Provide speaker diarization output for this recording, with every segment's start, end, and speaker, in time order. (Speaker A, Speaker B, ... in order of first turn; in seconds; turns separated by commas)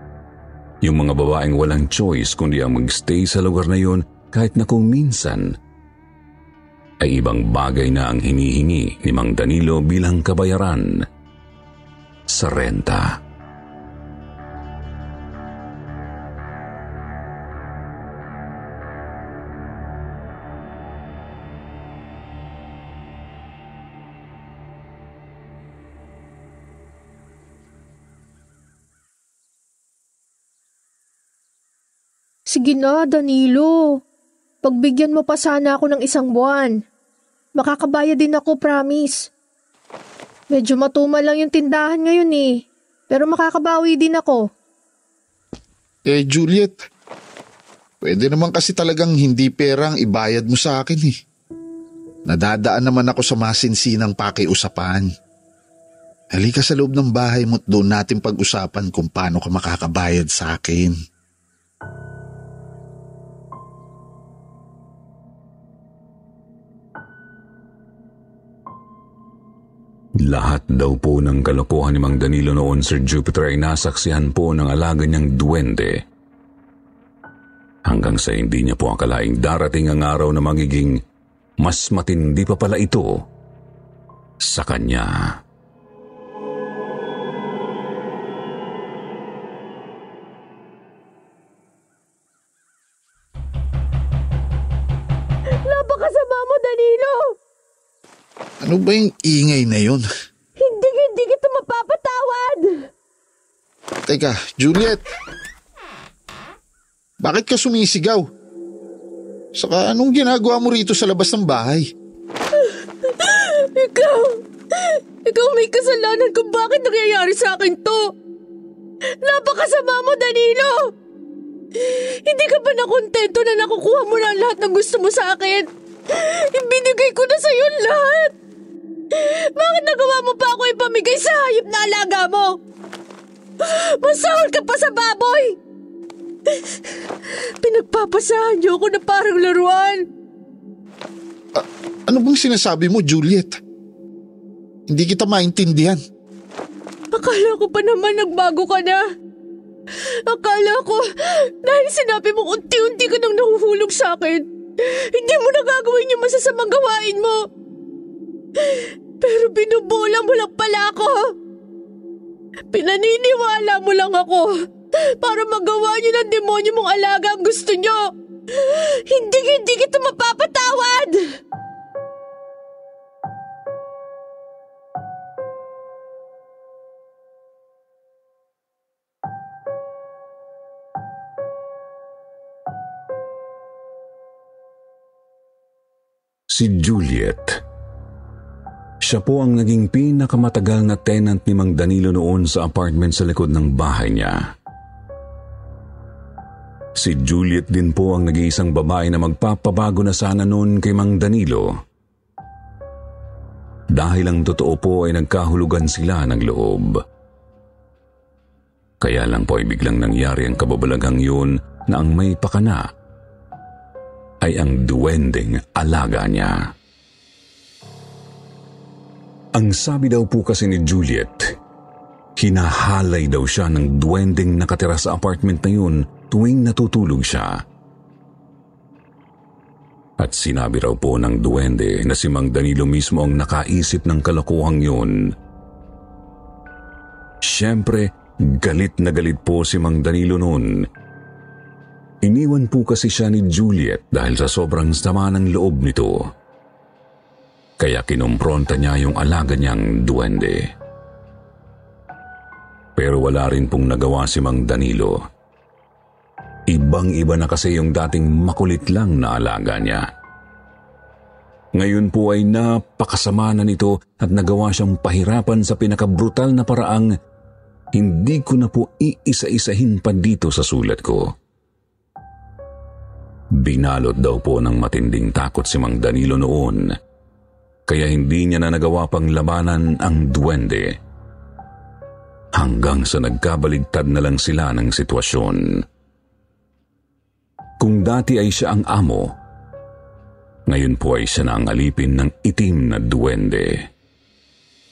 Speaker A: 0.8-5.6, Speaker A: 7.0-11.0, Speaker A: 12.3-13.2, Speaker B: 32.5-34.0, Speaker B: 34.6-36.8, Speaker B: 37.5-39.3, Speaker B: 40.5-44.5, Speaker C: 46.1-46.8, Speaker C: 48.0-51.1, Speaker C: 52.3-55.1, Speaker C: 56.3-61.0, Speaker A: 70.2-76.0, Speaker A: 77.9-81.0, Speaker A: 81.6-83.2, Speaker A: 84.4-85.4, Speaker B: 95.6-97.3, Speaker C: 98.6-100.0, Speaker B: 100.6-102.9, Speaker C: 104.1-105.0, Speaker C: 107.2-108.2, Speaker C: 109.5-111.9, Speaker B: 112.6-118.1, Speaker B: 119.2-120.9, Speaker B: 121.8-128.3, Speaker B: 129.1-132.6, Speaker B: 133.6-135.6, Speaker B: 136.5-136.9, Speaker B: 137.6-140.1, Speaker C: 141.6-143.6, Speaker C: 144.9-146.0, Speaker B: 147.1-149.0, Speaker B: 150.3-157.4, Speaker B: 158.6-161.2, Speaker B: 162.7-164.5, Speaker B: 165.1-171.3, Speaker A: 186.5-187.6, Speaker A: 189.0-194.5, Speaker A: 197.0-201.7, Speaker A: 203.9-207.0, Speaker A: 209.0-212.9, Speaker A: 214.4-216.7, Speaker A: 219.6-221.6, Speaker A: 222.4-227.6, Speaker A: 230.2-235.3, Speaker A: 237.4-240.9, Speaker A: 242.2-246.3, Speaker A: 247.8-250.7, Speaker A: 253.0-255.2, Speaker A: 256.7-260.1, Speaker A: 261.8-267.1, Speaker A: 267.9-271.3, Speaker A: 273.5-276.9, Speaker A: 277.9-280.9, Speaker A: 282.5-285.9, Speaker A: 287.8-289.3, Speaker A: 290.7-293.9